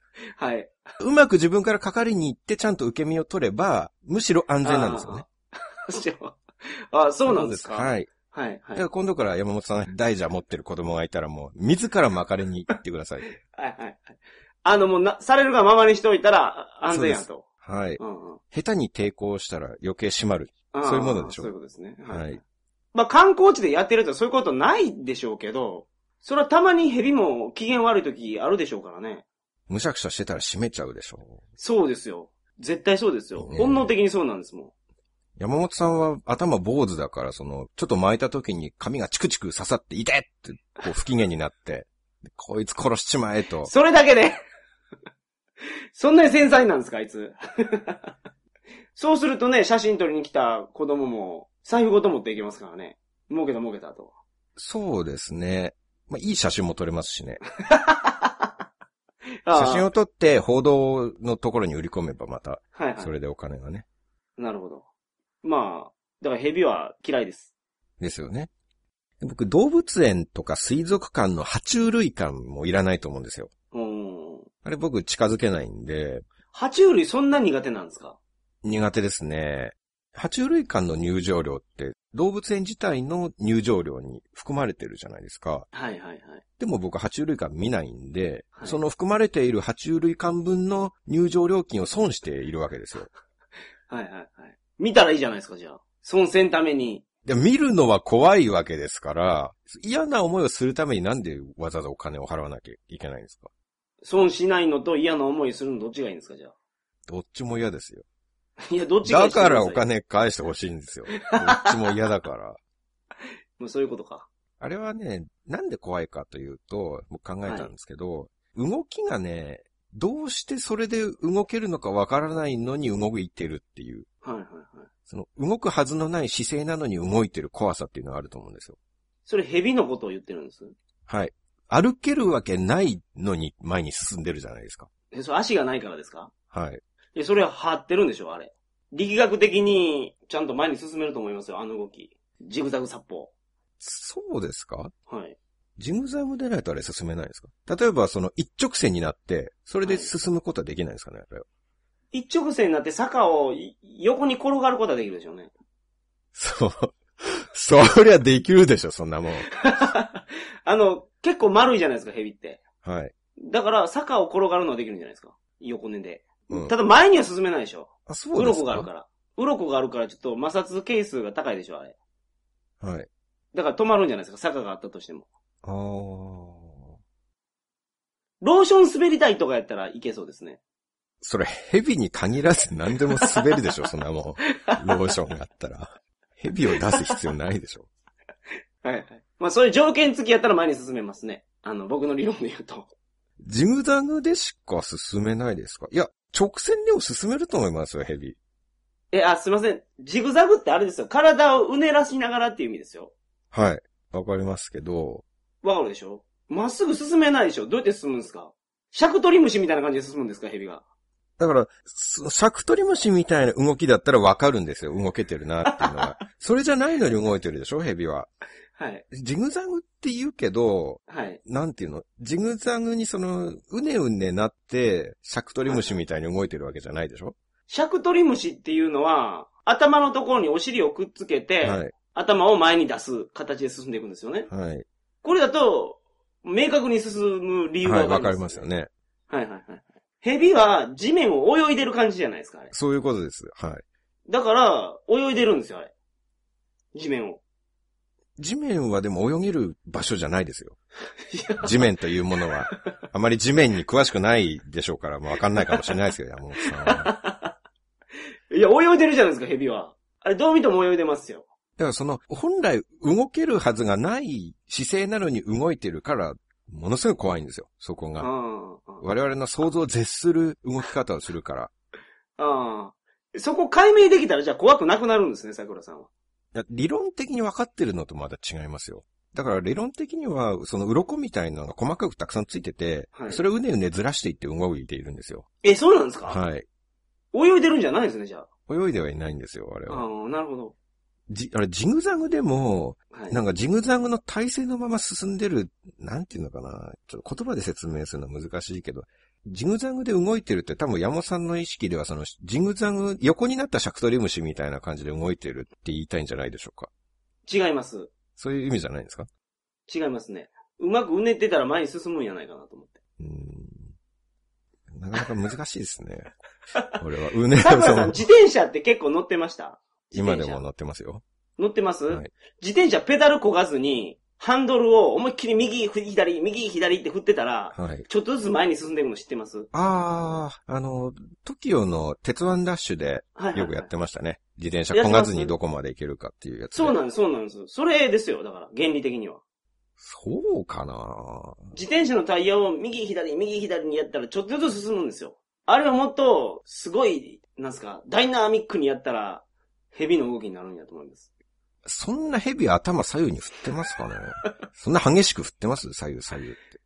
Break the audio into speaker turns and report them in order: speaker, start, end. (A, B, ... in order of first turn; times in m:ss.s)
0:00.4-0:00.7 A
0:01.0-0:05.2 B
0:04.6-0:08.8 A
0:07.2-0:08.1 B
0:08.7-0:13.3 B
0:13.5-0:17.4 A
0:16.9-0:21.5 B
0:18.0-0:18.4 A
0:20.7-0:22.4 A
0:22.1-0:22.4 B
0:22.9-0:29.2 A
0:29.7-0:31.4 B
0:31.6-0:34.7 A
0:33.4-0:33.9 B
0:35.4-0:43.7 B
0:43.6-0:44.4 A
0:45.9-0:48.1 A
0:48.9-0:54.1 A
0:54.6-0:57.4 B
0:57.6-0:58.5 A
0:59.4-0:59.9 A
0:59.5-1:03.8 B
1:02.7-1:03.1 A
1:04.4-1:04.8 A
1:05.4-1:07.5 A
1:08.0-1:08.5 B
1:09.2-1:13.5 B
1:13.7-1:14.5 A
1:14.6-1:16.2 B
1:16.5-1:18.2 A
1:18.6-1:25.7 B
1:25.7-1:26.4 A
1:26.6-1:33.1 B
1:33.9-1:37.0 A
1:37.2-1:43.5 B
1:44.0-1:46.5 A
1:47.1-1:48.0 B
1:48.6-1:49.8 A
1:49.0-1:52.6 B
1:51.2-1:51.9 A
1:53.6-1:54.3 A
1:54.6-2:04.1 B
2:04.2-2:04.9 A
2:05.1-2:08.8 B
2:09.2-2:10.7 A
2:11.1-2:14.9 B
2:15.1-2:16.3 A
2:16.5-2:16.8 B
2:17.1-2:23.3 A
2:23.8-2:24.9 B
2:25.1-2:25.4 A
2:25.8-2:31.4 B
2:29.8-2:30.1 A
2:32.1-2:35.5 A
2:36.3-2:39.8 B
2:39.6-2:42.6 A
2:42.8-2:43.1 B
2:43.4-2:52.0 A
2:48.1-2:48.9 B
2:52.8-2:53.1 B
2:53.5-2:55.3 A
2:55.6-2:56.9 B
2:58.4-3:00.6 A
3:01.2-3:07.9 B
3:04.5-3:05.0 A
3:06.8-3:07.1 A
3:08.8-3:12.9 A
3:13.4-3:18.4 B
3:19.1-3:23.1 A
3:23.5-3:25.2 B
3:25.6-3:30.8 A
3:31.4-3:38.3 B
3:35.7-3:36.1 A
3:38.8-3:39.0 A
3:39.1-3:47.4 B
3:41.1-3:41.4 A
3:45.6-3:45.9 A
3:47.7-3:54.5 A
3:51.6-3:51.9 B
3:54.5-3:54.8 B
3:55.2-3:58.7 A
3:57.8-3:58.9 B
3:59.3-4:02.7 A
4:02.7-4:03.8 B
4:04.3-4:05.9 A
4:06.9-4:07.4 A
4:08.4-4:10.8 B
4:11.3-4:11.8 A
4:11.6-4:17.2 B
4:16.8-4:17.5 A
4:18.5-4:21.4 A
4:21.8-4:28.3 B
4:28.2-4:29.0 A
4:29.0-4:31.7 B
4:32.4-4:36.1 A
4:36.5-4:45.4 B
4:43.1-4:43.4 A
4:45.6-4:46.4 A
4:46.2-4:46.6 B
4:47.3-4:48.5 A
4:48.7-4:50.0 B
4:49.9-4:50.7 A
4:51.3-5:06.9 B
4:53.1-4:53.4 A
5:07.4-5:08.1 A
5:08.4-5:09.3 B
5:09.9-5:12.9 A
5:13.2-5:13.9 B
5:14.9-5:16.3 B
5:17.0-5:18.2 B
5:17.5-5:20.6 A
5:20.1-5:21.2 B
5:21.6-5:29.7 A
5:27.7-5:28.0 B
5:29.7-5:37.0 B
5:33.4-5:33.9 A
5:34.9-5:35.5 A
5:36.8-5:39.4 A
5:40.0-5:41.6 B
5:41.7-5:51.3 A
5:51.8-5:56.7 B